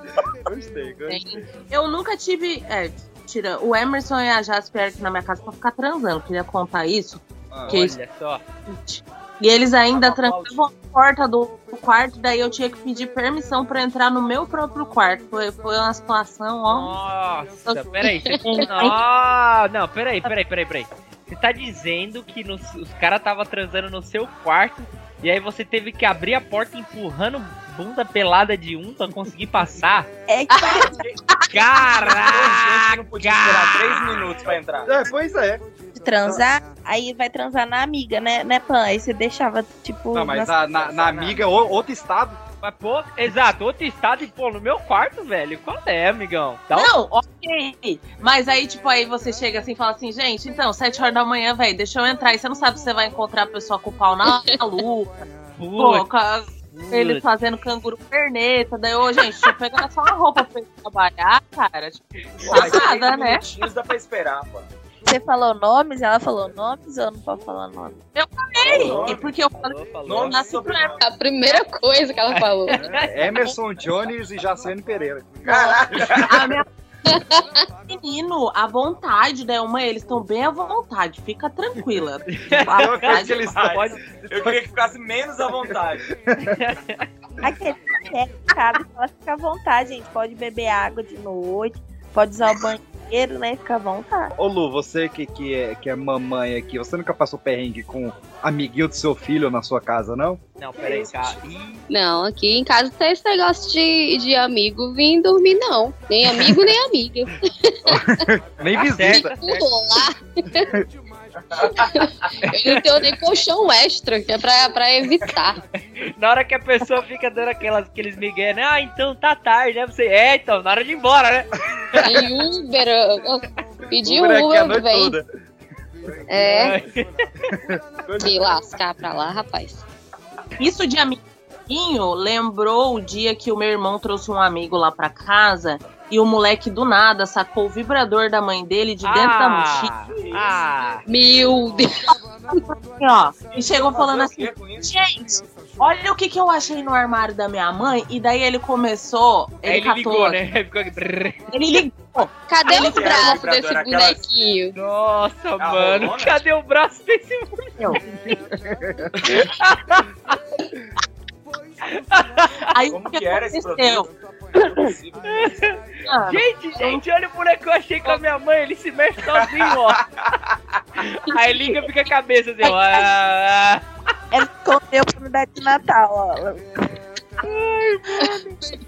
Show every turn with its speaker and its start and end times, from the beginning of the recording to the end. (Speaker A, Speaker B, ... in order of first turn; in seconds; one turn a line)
Speaker A: 0.5-1.3
Speaker B: 1.1-7.9
Speaker A: 7.5-7.8
Speaker C: 7.7-8.4
Speaker B: 8.7-16.9
Speaker C: 9.9-10.6
Speaker C: 16.7-30.1
Speaker D: 18.2-18.7
Speaker B: 18.4-18.9
Speaker E: 30.3-31.0
Speaker C: 31.5-34.1
Speaker F: 31.8-35.0
Speaker A: 34.8-35.6
Speaker E: 35.9-40.6
Speaker A: 40.1-42.4
Speaker F: 40.8-41.6
Speaker C: 42.6-46.9
Speaker B: 46.7-55.2
Speaker D: 54.3-54.6
Speaker C: 55.6-56.0
Speaker B: 55.8-63.4
Speaker C: 56.7-57.2
Speaker F: 62.4-64.7
Speaker E: 65.0-68.0
Speaker B: 68.2-71.0
Speaker F: 68.6-69.3
Speaker C: 68.6-70.4
Speaker F: 70.0-71.0
Speaker D: 71.0-72.8
Speaker C: 72.3-73.5
Speaker A: 72.9-75.5
Speaker F: 75.5-76.3
Speaker B: 76.2-76.7
Speaker D: 77.1-77.4
Speaker B: 77.9-83.5
Speaker C: 82.3-84.0
Speaker A: 82.5-84.6
Speaker F: 83.4-86.0
Speaker A: 86.3-86.5
Speaker C: 86.5-87.0
Speaker E: 87.4-94.3
Speaker A: 94.3-100.4
Speaker C: 100.6-101.8
Speaker D: 101.9-108.2
Speaker A: 107.9-109.3
Speaker C: 108.9-109.6
Speaker D: 109.0-110.7
Speaker D: 111.8-115.6
Speaker C: 116.0-122.1
Speaker D: 122.0-125.2
Speaker A: 124.0-125.2
Speaker D: 126.3-126.8
Speaker C: 126.4-127.1
Speaker F: 128.1-128.8
Speaker D: 128.2-129.8
Speaker B: 130.6-139.9
Speaker C: 139.0-141.0
Speaker F: 140.1-140.6
Speaker D: 141.0-142.1
Speaker B: 142.5-150.4
Speaker F: 143.5-144.9
Speaker C: 149.6-151.5
Speaker B: 151.5-153.5
Speaker D: 152.5-154.7
Speaker F: 152.7-154.2
Speaker C: 154.7-158.4
Speaker F: 155.6-156.4
Speaker A: 158.6-159.1
Speaker C: 159.2-160.3
Speaker C: 161.9-162.7
Speaker B: 162.7-164.1
Speaker F: 162.9-165.7
Speaker C: 165.2-170.0
Speaker B: 166.1-167.0
Speaker F: 169.7-170.5
Speaker C: 171.0-173.8
Speaker E: 172.6-173.1
Speaker E: 174.3-176.7
Speaker C: 177.4-178.3